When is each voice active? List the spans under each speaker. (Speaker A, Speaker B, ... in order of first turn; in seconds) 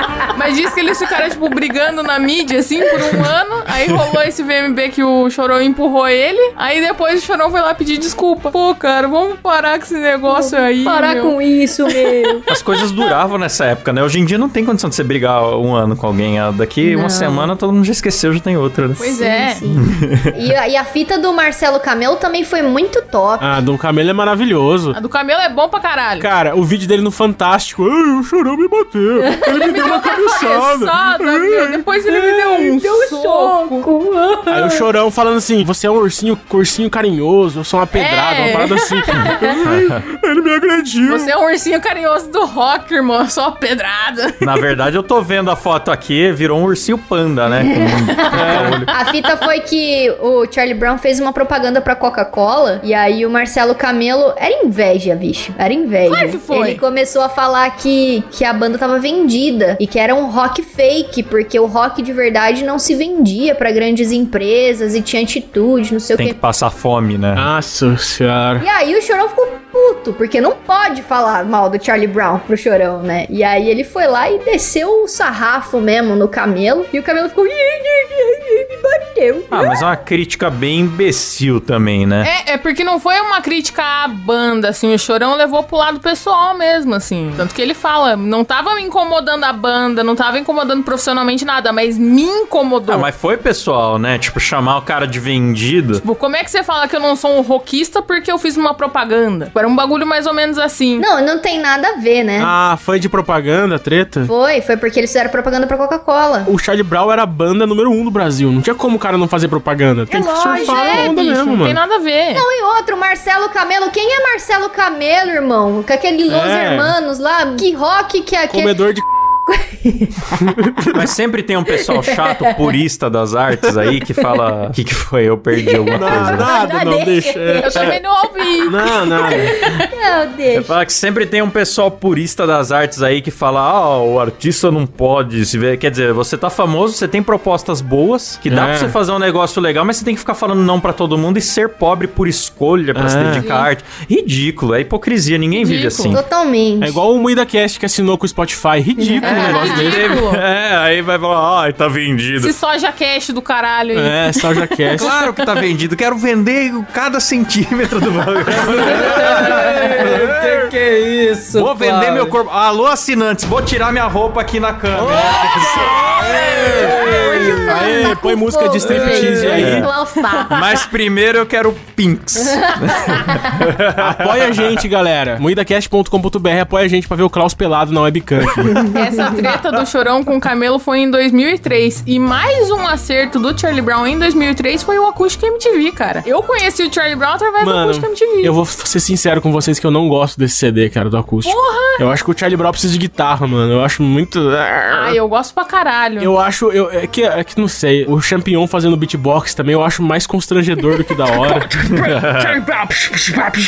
Speaker A: 0.3-11.3, 12.2-12.5, 19.0-19.6, 24.9-26.3, 29.5-33.9, 37.9-39.3, 41.1-44.5, 56.0-56.8, 82.2-93.1, 96.0-101.0, 110.5-112.4, 127.6-129.8, 143.4-143.7, 145.6-146.2, 149.2-150.4, 152.4-155.3, 178.9-188.5, 191.4-192.0, 194.9-196.3
Speaker B: 10.3-12.5, 16.8-17.5, 19.1-23.6, 29.2-29.9, 32.2-34.9, 47.5-66.4, 68.6-79.9, 101.0-102.5, 104.2-106.5, 110.1-111.1, 112.3-118.8, 119.5-120.5, 121.8-122.7, 125.6-128.0, 128.8-130.7, 146.1-147.0, 149.0-149.6, 166.7-170.5, 173.1-173.3, 178.7-179.3
Speaker C: 12.5-19.1, 19.7-20.3, 39.6-40.0, 44.4-48.9, 66.2-67.5, 79.5-82.3, 92.9-96.0, 120.9-126.5, 130.5-146.2, 149.2-152.5, 154.9-160.3, 161.5-167.5, 169.5-169.9, 170.5-174.8, 201.9-202.6
Speaker D: 23.4-25.0, 26.2-31.9, 34.5-41.3, 48.3-48.8, 67.3-68.6, 102.4-104.3, 106.5-111.8, 116.3-116.9, 118.5-119.0, 120.4-121.0, 125.9-128.0, 128.7-129.6, 138.5-138.9, 142.9-143.4, 146.8-150.1, 153.9-155.1, 160.0-160.3, 166.4-166.8, 167.4-169.9, 174.0-178.9, 187.6-195.2, 196.2-201.7, 202.7-203.3
Speaker E: 158.7-162.3, 164.9-167.9, 168.9-169.7